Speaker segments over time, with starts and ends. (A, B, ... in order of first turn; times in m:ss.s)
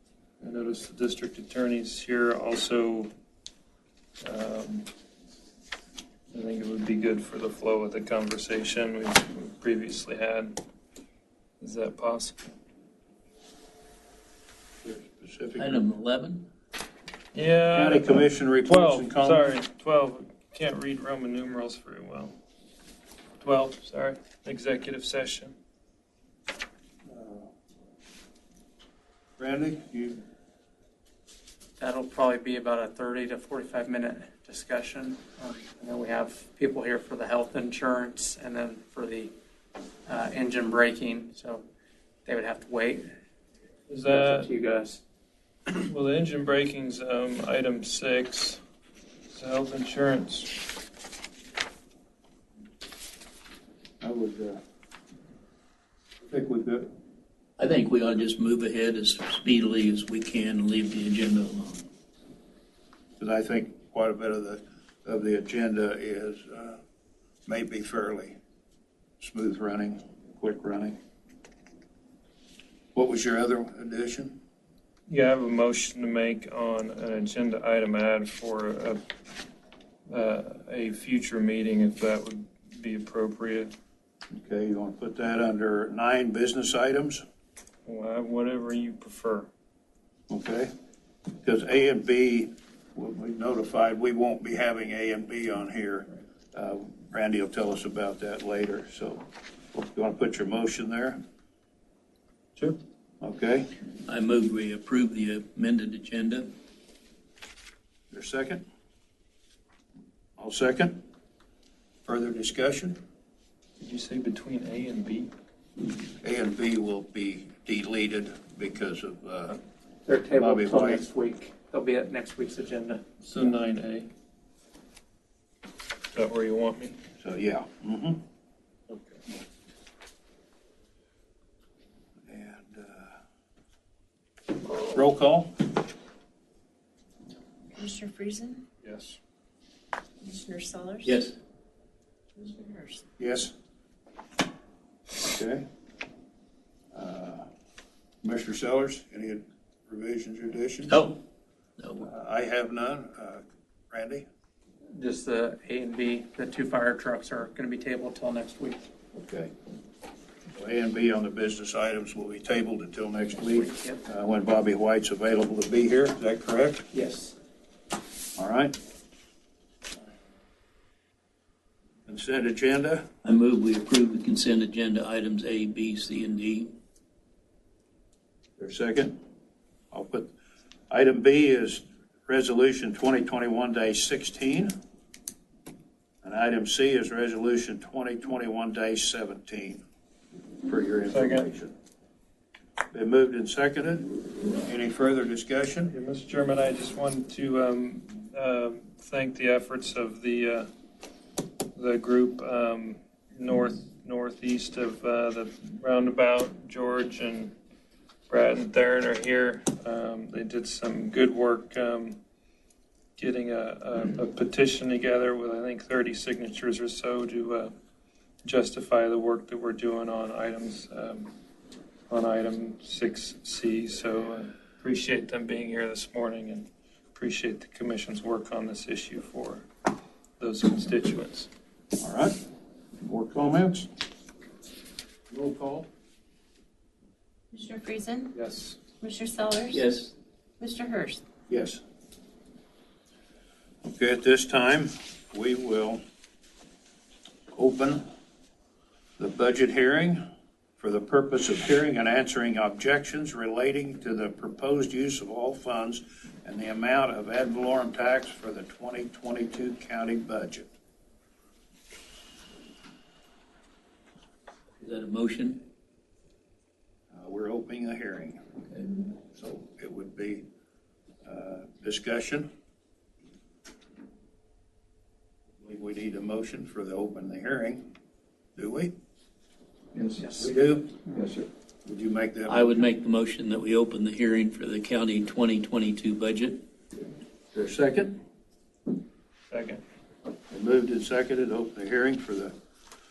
0:00.4-0:03.1 A
0:04.2-0:04.9 A
0:06.3-0:10.6 A
0:11.6-0:12.5 A
0:14.8-0:15.8 B
0:15.6-0:16.5 C
0:17.3-0:22.4 A
0:17.7-0:19.5 B
0:23.4-0:25.5 A
0:27.0-0:27.5 B
0:29.4-0:30.2 B
0:31.8-0:39.3 D
0:40.0-0:41.6 D
0:42.2-0:43.1 D
0:43.9-0:44.5 A
0:44.0-0:45.0 D
0:45.8-0:48.6 A
0:49.3-0:50.6 A
0:54.0-0:54.6 B
0:56.2-0:56.9 B
0:57.6-1:01.8 C
1:03.2-1:06.8 B
1:07.4-1:08.4 B
1:09.2-1:11.0 B
1:13.0-1:14.4 B
1:15.1-1:19.0 A
1:20.1-1:23.7 A
1:24.3-1:27.2 B
1:27.8-1:29.5 A
1:30.3-1:30.7 B
1:31.4-1:41.2 B
1:43.2-1:43.7 B
1:44.0-1:46.5 C
1:48.1-1:48.6 B
1:50.4-1:51.0 B
1:52.0-1:53.0 B
1:53.8-1:55.3 A
1:56.2-1:59.6 B
2:00.1-2:03.0 D
2:00.3-2:01.0 B
2:03.2-2:04.1 A
2:06.1-2:07.0 A
2:07.2-2:08.2 B
2:08.9-2:09.2 A
2:12.3-2:13.1 B
2:14.9-2:15.7 B
2:17.7-2:18.6 E
2:18.8-2:19.2 A
2:20.2-2:21.2 E
2:21.0-2:21.4 C
2:22.4-2:23.0 E
2:23.2-2:23.5 B
2:25.3-2:25.6 B
2:26.9-2:27.5 B
2:28.2-2:31.0 B
2:30.9-2:31.2 C
2:31.8-2:32.1 C
2:32.0-2:34.2 B
2:34.9-2:38.8 D
2:39.1-2:39.5 B
2:40.5-2:46.9 B
2:43.5-2:44.0 D
2:46.9-2:47.4 D
2:48.4-2:48.8 B
2:52.1-2:53.1 B
2:53.2-2:56.7 C
2:58.6-2:59.2 B
2:59.9-3:00.3 B
3:00.9-3:04.7 B
3:06.2-3:09.8 B
3:10.6-3:11.7 B
3:11.1-3:11.5 A
3:12.9-3:15.9 B
3:15.9-3:20.7 A
3:21.7-3:27.5 A
3:28.3-3:32.2 A
3:33.2-3:37.7 A
3:38.4-3:41.3 A
3:42.1-3:49.7 A
3:50.4-3:51.5 A
3:52.0-3:52.4 B
3:53.0-3:53.9 B
3:55.3-3:55.9 A
3:57.5-3:58.3 E
3:58.3-3:58.8 A
3:59.0-3:59.8 E
3:59.7-4:00.1 C
4:00.6-4:01.2 E
4:01.5-4:01.8 B
4:03.8-4:06.0 B
4:07.5-4:08.0 B
4:09.2-4:10.2 B
4:10.8-4:20.7 B
4:24.8-4:25.6 C
4:27.1-4:28.4 B
4:28.7-4:29.0 C
4:29.3-4:30.4 B
4:31.2-4:32.5 B
4:35.6-4:37.8 B
4:38.6-4:38.9 B
4:39.9-4:40.2 A
4:40.2-4:40.5 D
4:40.4-4:41.0 B
4:41.1-4:41.4 A
4:41.9-4:42.8 B
4:42.5-4:46.6 C
4:47.5-4:48.2 B
4:49.5-4:49.8 A
4:50.5-4:52.5 B